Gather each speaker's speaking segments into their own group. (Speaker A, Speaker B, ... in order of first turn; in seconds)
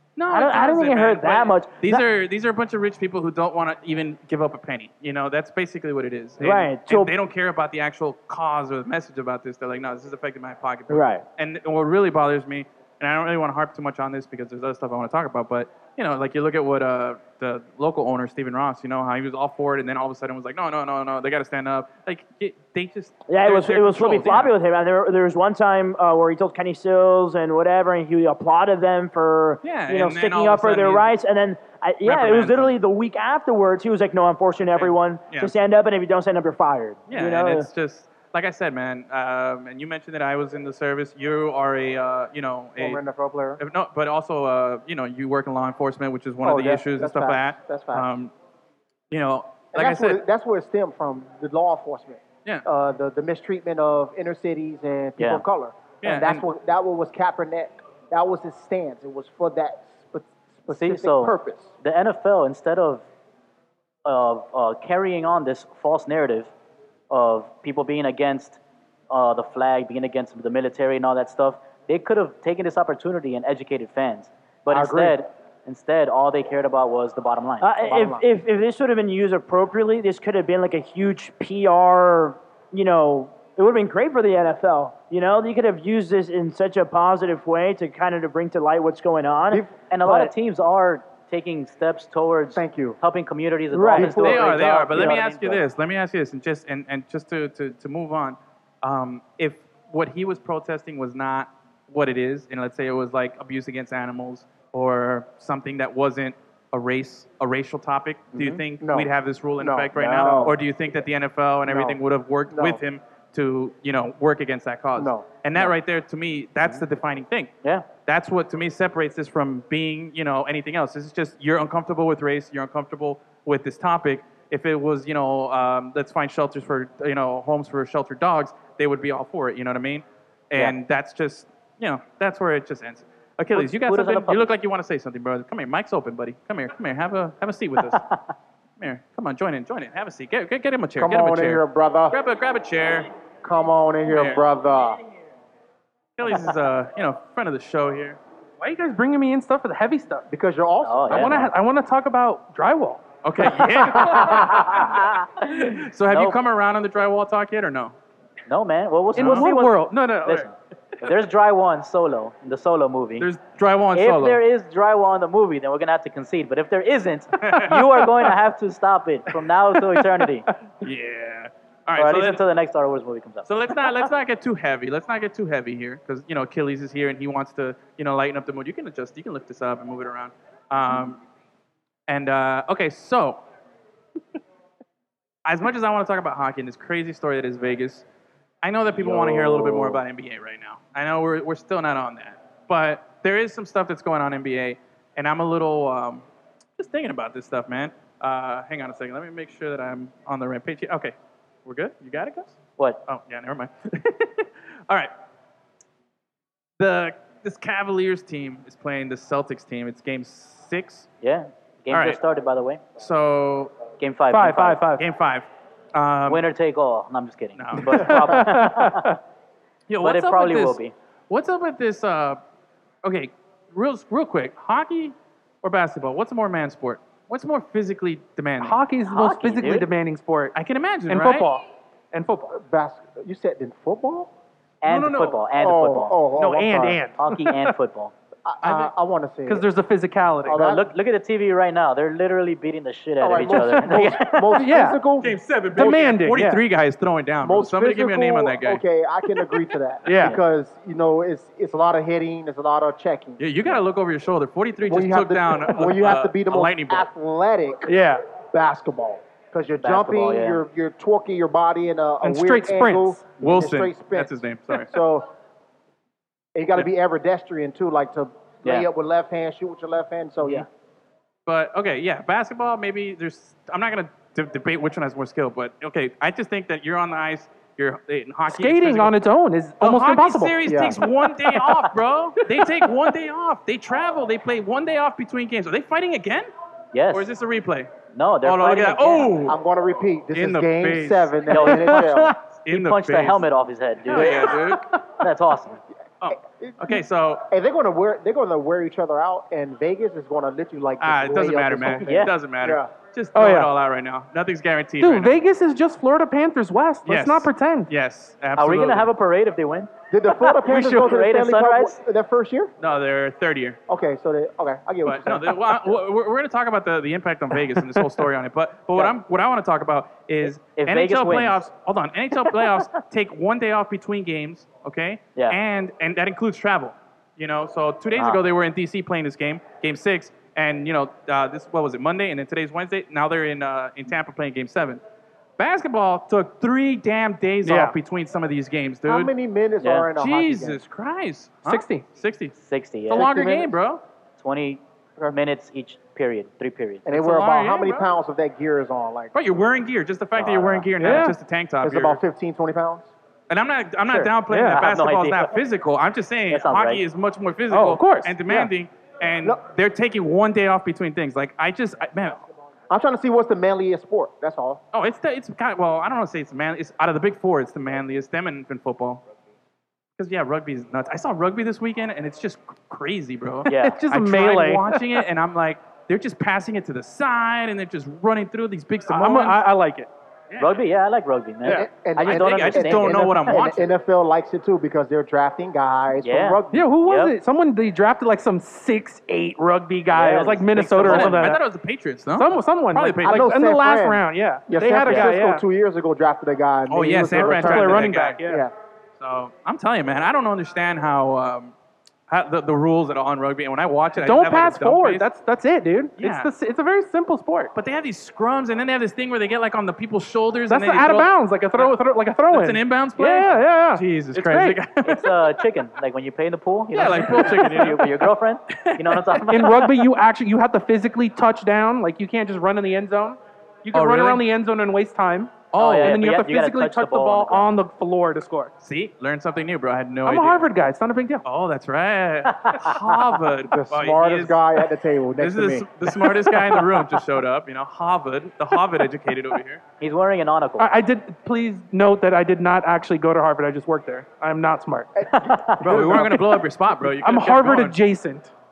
Speaker A: 0.1-24.5, 29.6-31.1, 32.0-32.7, 34.8-35.5, 37.1-43.0, 43.6-48.3, 49.1-50.2, 56.0-56.4, 94.0-117.5, 118.0-138.0, 138.8-143.1, 144.1-144.4, 146.2-148.2, 153.2-157.9, 159.2-159.5, 163.2-164.4, 167.4-168.1, 170.8-172.4, 173.5-181.2, 182.1-183.4, 185.4-188.0, 188.6-196.2, 196.8-205.1, 206.8-211.1, 211.9-212.2, 212.9-213.7, 215.0-216.4, 217.6-218.5, 219.9-220.8, 221.3-222.4, 223.0-228.8, 230.5-231.5, 238.6-238.9, 245.2-248.8, 253.4-257.1, 263.4-264.9, 271.4-279.1, 279.8-286.5, 287.1-287.9, 288.4-289.6, 290.3-292.0, 292.6-293.4, 294.1-295.0, 296.2-297.5, 301.0-305.4, 307.0-309.1, 312.8-313.8, 315.0-335.0, 335.6-339.3, 340.1-342.5, 343.1-344.0, 347.1-348.1, 349.3-352.2, 353.5-362.4, 364.9-369.2, 370.2-379.6, 380.5-380.8, 382.2-383.9, 391.0-393.5, 396.9-398.4, 399.2-401.7, 402.3-405.2, 406.2-406.5, 407.7-411.9, 412.5-415.4, 416.9-419.5, 423.9-424.4, 425.7-426.3, 428.8-430.6, 431.4-434.6, 435.4-439.8, 445.8-447.9
Speaker B: 0.3-2.0, 6.4-7.1, 10.9-11.2, 23.3-37.7, 77.6-90.3, 93.7-94.2
Speaker C: 42.8-43.6, 46.4-48.1, 49.7-61.7, 74.7-75.2, 77.8-78.2, 92.5-93.0, 93.9-95.0, 108.4-110.6, 111.7-112.0, 112.5-112.8, 115.0-115.3, 141.0-142.2, 143.4-145.0, 150.3-151.4, 154.1-154.4, 232.5-234.3, 235.6-237.0, 238.4-239.7, 240.4-240.9, 243.2-246.0, 247.4-253.8, 254.8-265.3, 266.5-270.7, 280.6-281.0, 289.4-292.3, 296.3-302.9, 310.1-312.7, 313.9-315.8, 339.0-340.8, 343.1-343.8, 347.1-349.3, 351.8-353.1, 362.9-364.8, 381.6-386.9, 393.2-398.7, 433.7-436.2, 445.1-446.6
Speaker D: 55.2-55.4, 60.7-63.0, 64.0-66.5, 67.1-77.7, 89.9-95.6, 133.5-134.5, 137.8-138.2, 150.8-151.5, 154.3-155.2, 156.1-156.4, 158.5-163.3, 163.9-170.4, 172.0-173.9, 189.0-190.0, 211.2-212.8, 214.0-214.8, 216.3-219.1, 220.0-220.9, 229.1-229.9, 234.8-236.2, 237.2-238.1, 240.5-244.6, 259.8-260.6, 286.9-287.3, 288.1-289.4, 291.5-295.8, 302.0-302.3, 308.6-309.9, 310.4-312.0, 320.7-321.6, 322.5-322.8, 328.1-328.4, 339.8-340.1, 342.6-343.3, 344.4-347.1, 350.4-351.2, 354.7-355.5, 356.5-357.0, 373.7-374.0, 380.6-383.6, 386.2-387.3, 390.1-391.5, 415.0-420.0, 425.8-427.7, 432.6-432.9, 440.0-440.9, 445.3-446.3
Speaker E: 148.6-150.3, 151.1-153.0, 153.6-154.1, 159.1-160.5, 214.3-215.1, 217.9-219.2, 228.6-230.5, 231.1-232.6, 234.9-235.4, 236.3-237.7, 239.5-240.6, 243.5-245.0, 245.7-246.6, 250.0-250.4, 257.9-258.2, 262.2-263.2, 278.5-280.6, 303.3-303.7, 305.0-307.9, 337.6-337.9, 341.6-342.1, 351.0-351.4, 354.1-354.8, 357.7-358.4, 373.7-375.0, 379.1-380.1, 386.7-391.6, 392.3-395.6, 397.3-398.6, 404.2-407.7, 410.7-414.9, 419.5-428.7, 430.2-431.4, 440.8-445.1, 447.2-448.5